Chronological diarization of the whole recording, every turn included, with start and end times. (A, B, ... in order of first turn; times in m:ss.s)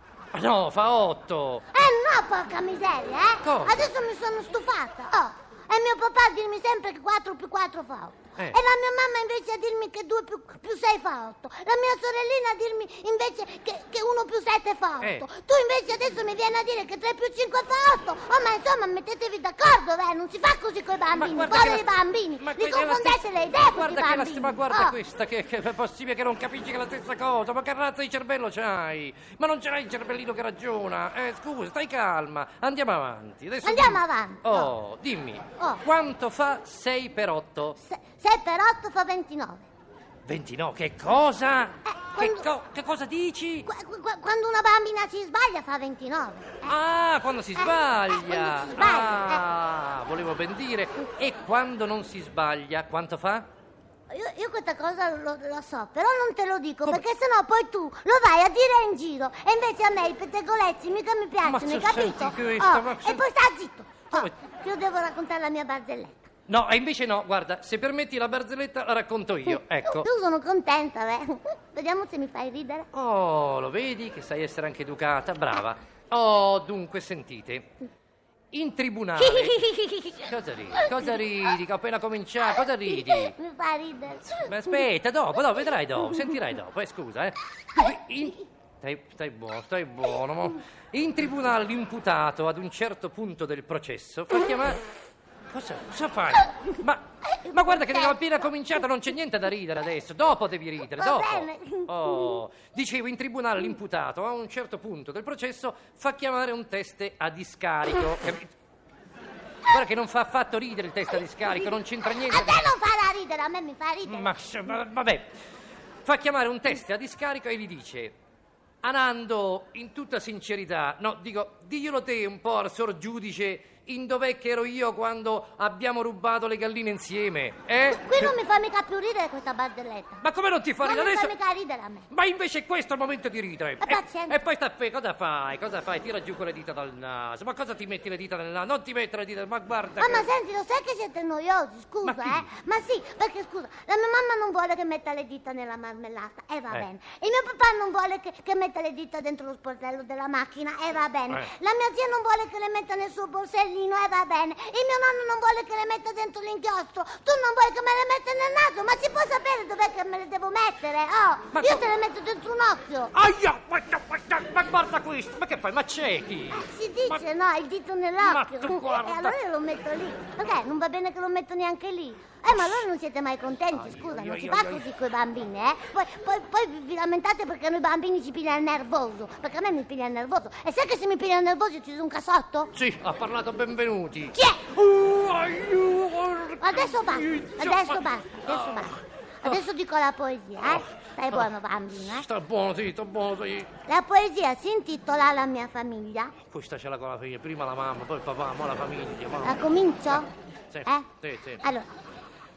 0:00.3-0:01.6 A
0:01.7-0:25.0 B
0:03.4-0:03.9 A
0:15.0-0:15.2 A
0:21.1-0:37.8 A
0:33.6-0:34.7 B
0:37.8-0:39.7 B
0:40.2-0:43.7 A
0:41.9-0:42.5 B
0:43.7-0:46.8 B
0:46.6-0:53.5 A
0:47.6-0:49.4 B
0:54.1-1:06.3 B
1:01.4-1:03.2 A
1:06.5-1:10.1 A
1:09.5-1:12.9 B
1:12.9-1:17.7 A
1:18.5-1:23.3 A
1:19.2-1:20.2 B
1:22.8-1:24.6 B
1:24.3-1:34.8 A
1:35.5-1:48.5 A
1:37.4-1:38.1 B
1:41.0-1:42.3 B
1:49.7-1:52.7 A
1:52.2-1:54.3 B
1:54.0-1:55.3 A
1:56.0-1:58.2 A
1:58.8-2:08.4 A
2:07.8-2:10.2 B
2:10.2-2:11.3 A
2:10.8-2:12.0 B
2:12.1-2:20.3 A
2:13.8-2:14.4 B
2:20.0-2:43.1 B
2:22.0-2:22.5 A
2:41.5-2:41.9 A
2:43.1-2:47.2 A
2:46.6-3:02.7 B
2:48.2-2:49.4 A
2:53.8-2:54.8 A
3:02.7-3:09.6 A
3:04.3-3:04.6 B
3:06.6-3:12.2 B
3:10.6-3:13.7 A
3:13.9-3:16.3 B
3:16.4-3:21.6 A
3:19.4-3:20.3 B
3:21.6-3:21.9 B